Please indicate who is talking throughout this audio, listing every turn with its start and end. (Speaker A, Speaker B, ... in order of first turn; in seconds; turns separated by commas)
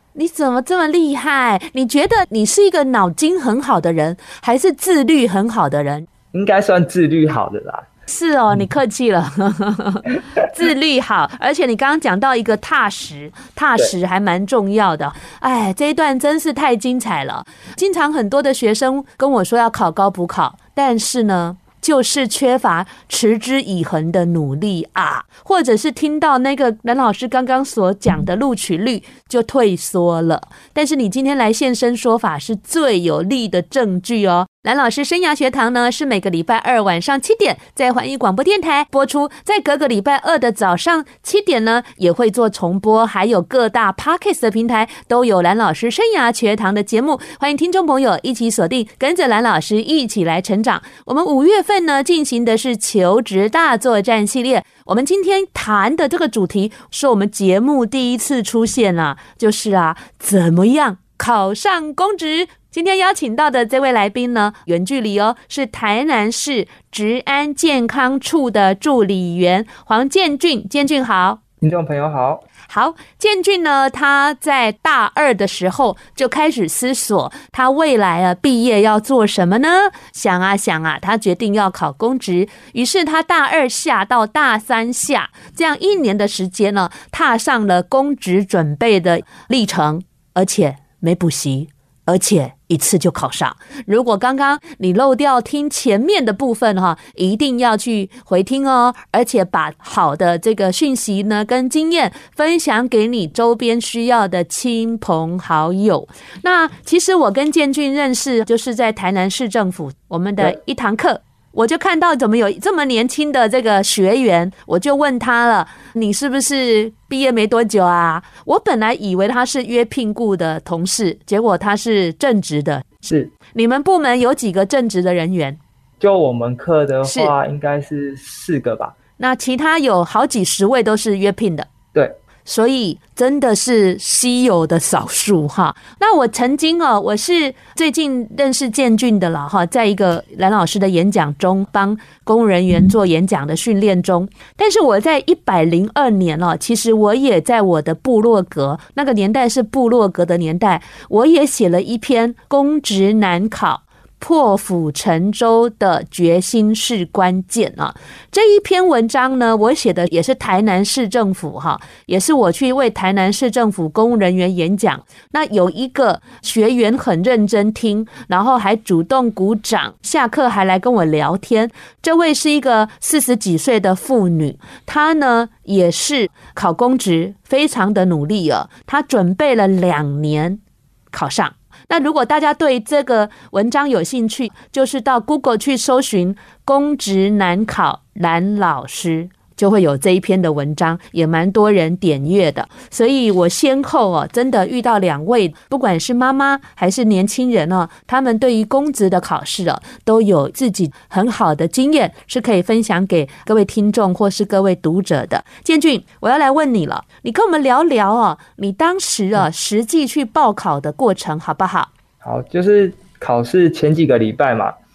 Speaker A: 0.1-6.1, Speaker B: 6.3-7.9, Speaker A: 8.1-71.4, Speaker B: 71.6-72.5, Speaker A: 72.7-123.0, Speaker B: 123.0-123.3, Speaker A: 123.5-125.6, Speaker B: 126.0-128.9, Speaker A: 127.0-127.3, Speaker A: 129.2-131.7, Speaker A: 132.4-180.6, Speaker A: 181.1-211.9, Speaker B: 212.2-214.8